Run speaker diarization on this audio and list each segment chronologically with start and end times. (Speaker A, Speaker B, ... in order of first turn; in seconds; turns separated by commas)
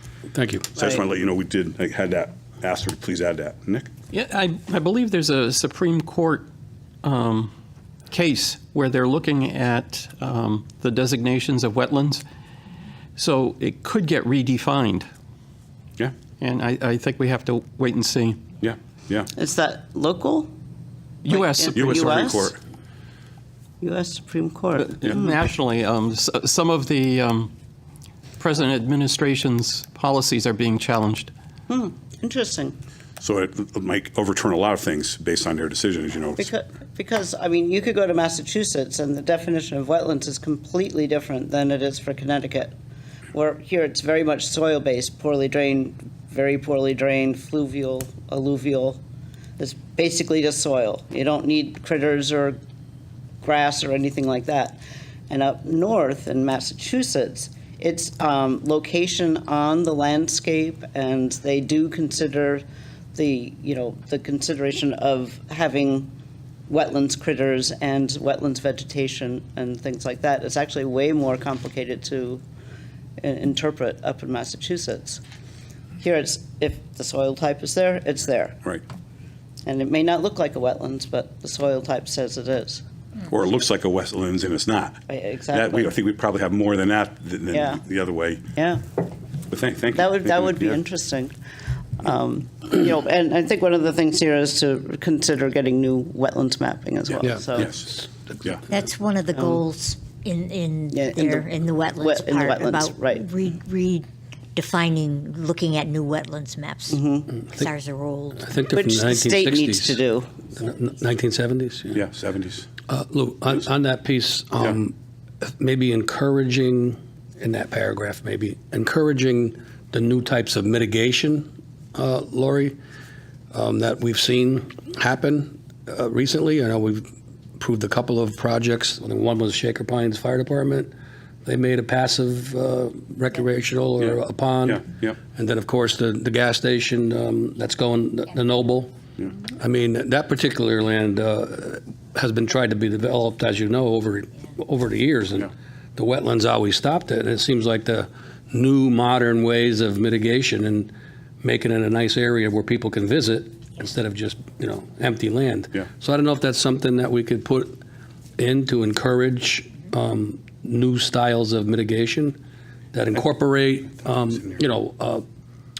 Speaker A: 0.3-0.7, Speaker B: 0.7-3.9, Speaker C: 4.1-6.5, Speaker C: 7.0-7.5, Speaker C: 8.1-12.2, Speaker C: 13.2-15.1, Speaker C: 16.4-18.4, Speaker B: 18.6-19.3, Speaker D: 19.4-20.5, Speaker C: 21.2-22.3, Speaker D: 21.3-22.5, Speaker B: 21.7-22.6, Speaker D: 23.8-25.2, Speaker C: 24.8-27.5, Speaker C: 28.4-31.3, Speaker D: 31.7-32.8, Speaker B: 33.2-36.5, Speaker D: 36.4-42.8, Speaker D: 43.3-49.0, Speaker D: 49.6-52.6, Speaker D: 53.4-62.6, Speaker D: 63.1-66.1, Speaker D: 66.7-72.4, Speaker D: 73.2-75.2, Speaker D: 76.0-78.6, Speaker D: 79.7-82.8, Speaker B: 83.3-88.4, Speaker D: 85.1-85.9, Speaker D: 87.5-87.8, Speaker D: 88.6-88.8, Speaker B: 89.5-90.8, Speaker D: 89.9-91.3, Speaker D: 92.0-97.7, Speaker B: 97.1-98.6, Speaker E: 98.7-108.6, Speaker D: 99.3-99.6, Speaker D: 100.9-103.3, Speaker D: 106.9-107.3, Speaker A: 108.4-110.0, Speaker D: 108.7-110.3, Speaker A: 110.5-112.0, Speaker B: 111.9-112.7, Speaker A: 112.9-122.8, Speaker A: 123.5-127.1, Speaker A: 127.6-130.9, Speaker A: 131.4-138.9, Speaker B: 134.7-135.2, Speaker A: 139.4-157.8, Speaker A: 158.4-162.4, Speaker A: 162.9-165.2